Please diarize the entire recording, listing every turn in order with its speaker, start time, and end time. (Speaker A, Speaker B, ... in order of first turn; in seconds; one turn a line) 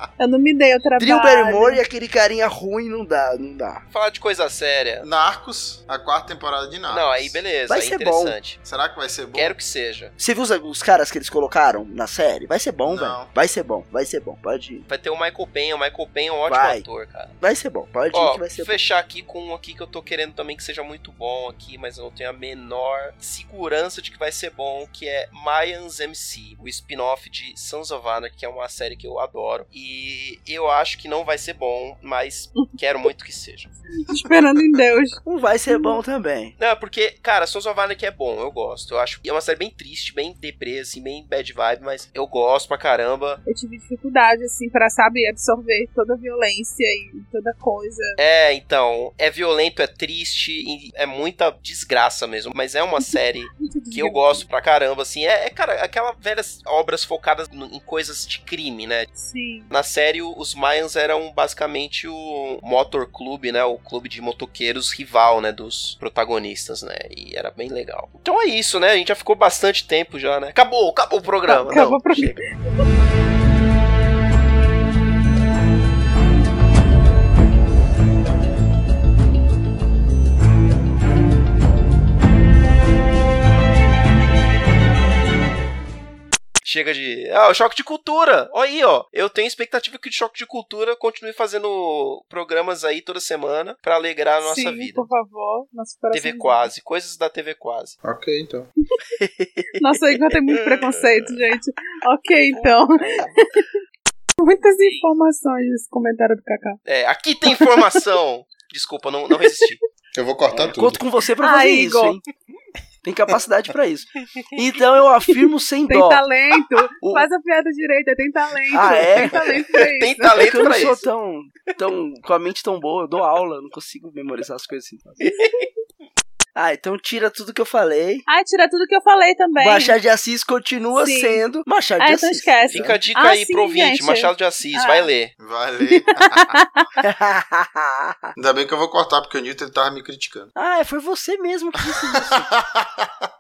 Speaker A: 0.2-1.8
Speaker B: 1.0-3.8
Speaker C: 3.9-5.1
Speaker D: 5.0-7.4
Speaker C: 6.9-8.6
Speaker B: 7.7-8.4
Speaker D: 8.6-9.5
Speaker C: 9.3-10.1
Speaker B: 10.2-14.9
Speaker D: 12.9-13.3
Speaker C: 14.9-17.3
Speaker B: 16.5-16.9
Speaker B: 17.4-18.7
Speaker C: 18.1-33.7
Speaker A: 34.1-35.2
Speaker B: 35.2-36.5
Speaker A: 35.7-36.0
Speaker C: 36.6-43.4
Speaker A: 43.5-48.2
Speaker C: 48.2-59.1
Speaker A: 53.0-54.5
Speaker A: 59.1-59.7
Speaker C: 59.7-72.4
Speaker A: 71.5-72.3
Speaker C: 86.7-95.1
Speaker A: 94.4-96.7
Speaker C: 96.1-98.0
Speaker D: 98.0-98.7
Speaker B: 99.1-99.8
Speaker A: 99.8-103.7
Speaker A: 104.4-106.8
Speaker C: 106.9-109.8
Speaker A: 107.5-107.8
Speaker D: 110.2-111.0
Speaker B: 110.7-112.2
Speaker A: 111.4-112.2
Speaker B: 113.0-116.2
Speaker A: 115.9-120.4
Speaker B: 117.0-117.3
Speaker B: 118.7-119.6
Speaker C: 120.0-121.0
Speaker B: 120.3-125.2
Speaker C: 125.2-125.7
Speaker B: 126.5-128.2
Speaker A: 128.3-130.0
Speaker B: 129.6-133.0
Speaker A: 131.0-131.4
Speaker A: 132.0-135.1
Speaker C: 132.7-135.3
Speaker D: 135.4-136.6
Speaker A: 136.3-136.8
Speaker B: 137.0-138.3
Speaker D: 138.4-140.5
Speaker B: 140.6-142.5
Speaker D: 142.2-143.1